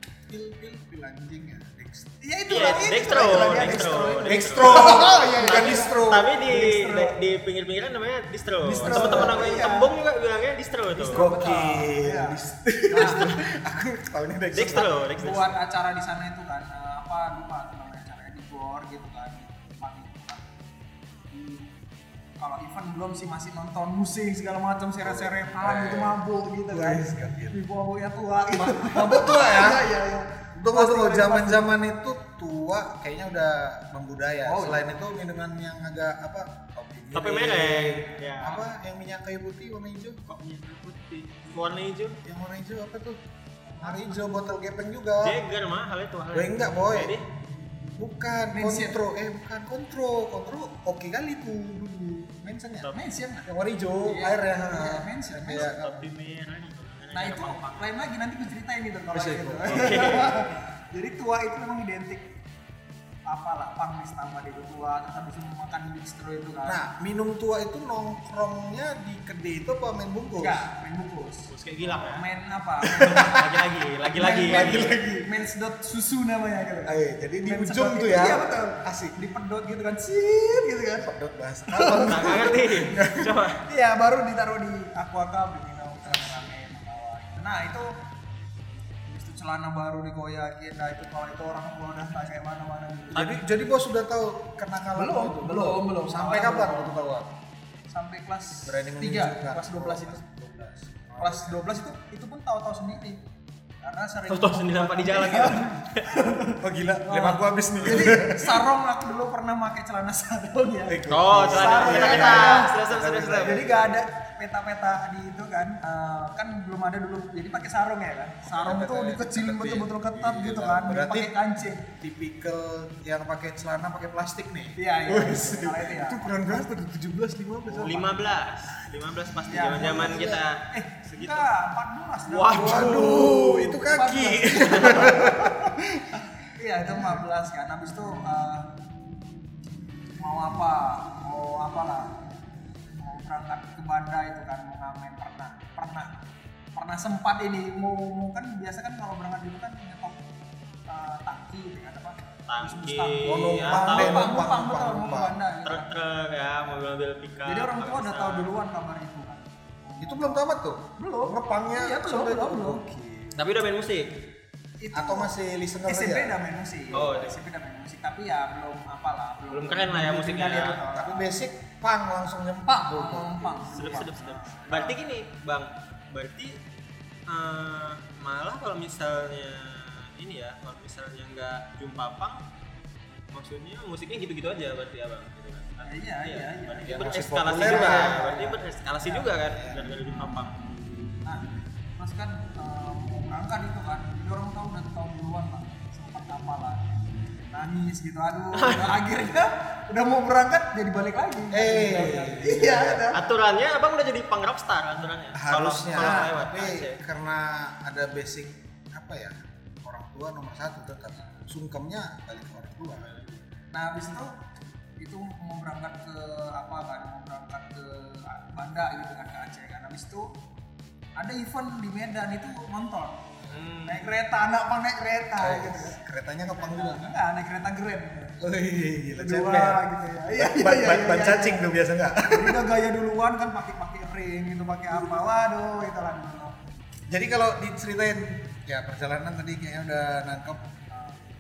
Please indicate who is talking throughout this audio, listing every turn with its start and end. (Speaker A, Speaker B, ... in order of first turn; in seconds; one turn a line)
Speaker A: 0.3-2.2
Speaker B: 2.2-7.2
Speaker C: 2.5-11.3
Speaker A: 2.8-6.3
Speaker A: 8.6-9.5
Speaker B: 8.7-9.9
Speaker B: 11.0-13.3
Speaker A: 11.0-15.2
Speaker C: 13.0-13.5
Speaker C: 14.5-15.6
Speaker B: 14.7-20.4
Speaker B: 21.3-21.7
Speaker B: 22.4-31.7
Speaker A: 25.0-27.6
Speaker A: 28.6-29.9
Speaker A: 30.6-40.2
Speaker B: 34.5-34.9
Speaker C: 37.1-38.6
Speaker C: 40.3-42.2
Speaker A: 42.2-43.2
Speaker A: 43.8-45.4
Speaker C: 45.2-47.2
Speaker A: 46.3-47.2
Speaker A: 48.0-52.9
Speaker B: 48.5-49.0
Speaker B: 52.9-53.5
Speaker A: 53.5-56.1
Speaker B: 54.0-55.7
Speaker C: 55.5-57.9
Speaker B: 57.1-62.3
Speaker A: 59.1-60.3
Speaker C: 59.7-60.5
Speaker B: 63.3-66.8
Speaker A: 66.7-70.6
Speaker B: 70.4-73.4
Speaker C: 71.5-72.2
Speaker A: 72.9-73.5
Speaker C: 73.0-75.0
Speaker B: 74.1-81.1
Speaker A: 74.5-75.3
Speaker A: 76.9-79.2
Speaker A: 81.0-83.3
Speaker B: 81.7-82.6
Speaker C: 82.0-83.6
Speaker B: 83.7-87.9
Speaker B: 89.1-93.3
Speaker A: 93.1-97.3
Speaker B: 95.0-97.0
Speaker B: 97.9-100.2
Speaker A: 98.7-101.6
Speaker B: 101.2-103.2
Speaker B: 103.8-112.7
Speaker C: 104.3-106.2
Speaker A: 106.6-108.6
Speaker A: 110.9-114.0
Speaker C: 111.1-113.7
Speaker B: 113.4-121.8
Speaker A: 118.4-121.3
Speaker A: 122.0-128.2
Speaker B: 124.8-126.8
Speaker B: 127.7-128.1
Speaker C: 127.8-131.5
Speaker B: 129.5-138.7
Speaker A: 129.7-130.4
Speaker C: 132.3-133.5
Speaker A: 132.5-136.2
Speaker A: 136.9-137.2
Speaker B: 140.2-142.1
Speaker B: 143.0-146.1
Speaker B: 146.8-150.2
Speaker B: 150.9-155.9
Speaker C: 152.5-154.3
Speaker A: 153.2-155.4
Speaker C: 155.6-158.5
Speaker B: 157.5-160.4
Speaker A: 160.0-163.4
Speaker B: 161.0-162.8
Speaker C: 163.3-164.1
Speaker B: 164.8-165.3
Speaker A: 164.9-166.4
Speaker B: 165.9-171.4
Speaker C: 166.9-167.4
Speaker C: 169.5-170.8
Speaker A: 170.8-174.1
Speaker B: 172.7-175.0
Speaker C: 173.8-176.6
Speaker C: 177.3-182.4
Speaker C: 183.3-190.5
Speaker B: 185.9-189.3
Speaker A: 186.9-188.2
Speaker A: 189.5-190.0
Speaker B: 192.0-196.9
Speaker B: 197.5-203.2
Speaker C: 198.5-199.0
Speaker A: 201.5-203.2
Speaker C: 203.1-207.0
Speaker A: 205.3-213.1
Speaker B: 206.0-206.3
Speaker C: 213.0-213.4
Speaker B: 213.7-214.4
Speaker B: 215.0-220.3
Speaker B: 221.2-223.3
Speaker C: 223.5-224.1
Speaker B: 223.9-228.4
Speaker A: 225.4-227.2
Speaker A: 228.4-232.6
Speaker B: 229.2-236.7
Speaker A: 237.1-240.6
Speaker B: 240.9-241.2